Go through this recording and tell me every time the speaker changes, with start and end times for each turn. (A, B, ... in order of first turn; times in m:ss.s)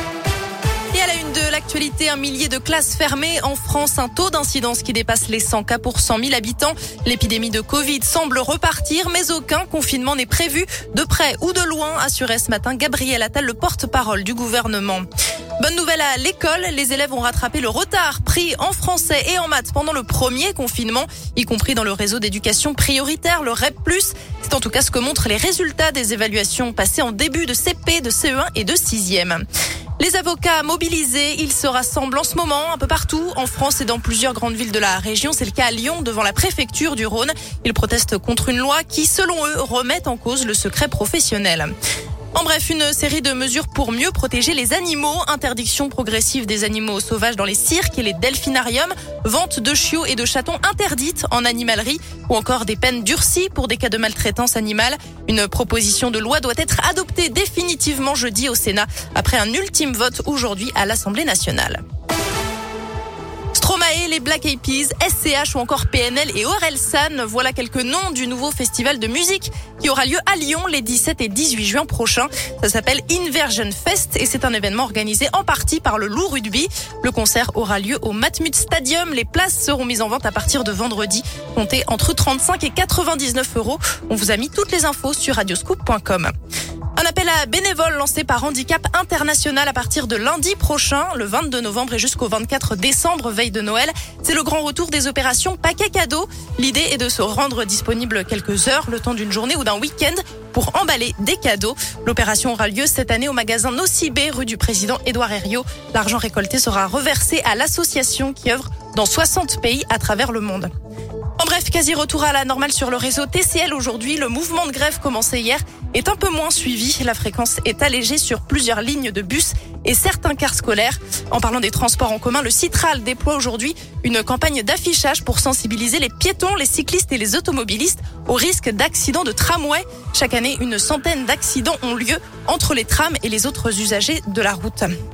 0:00.9-0:15.0 A
0:15.6-0:29.4 A
0:30.0-0:41.7 A
0:42.3-1:01.8 A
1:03.5-1:26.3 A
1:27.0-1:50.7 A
1:51.4-2:14.9 A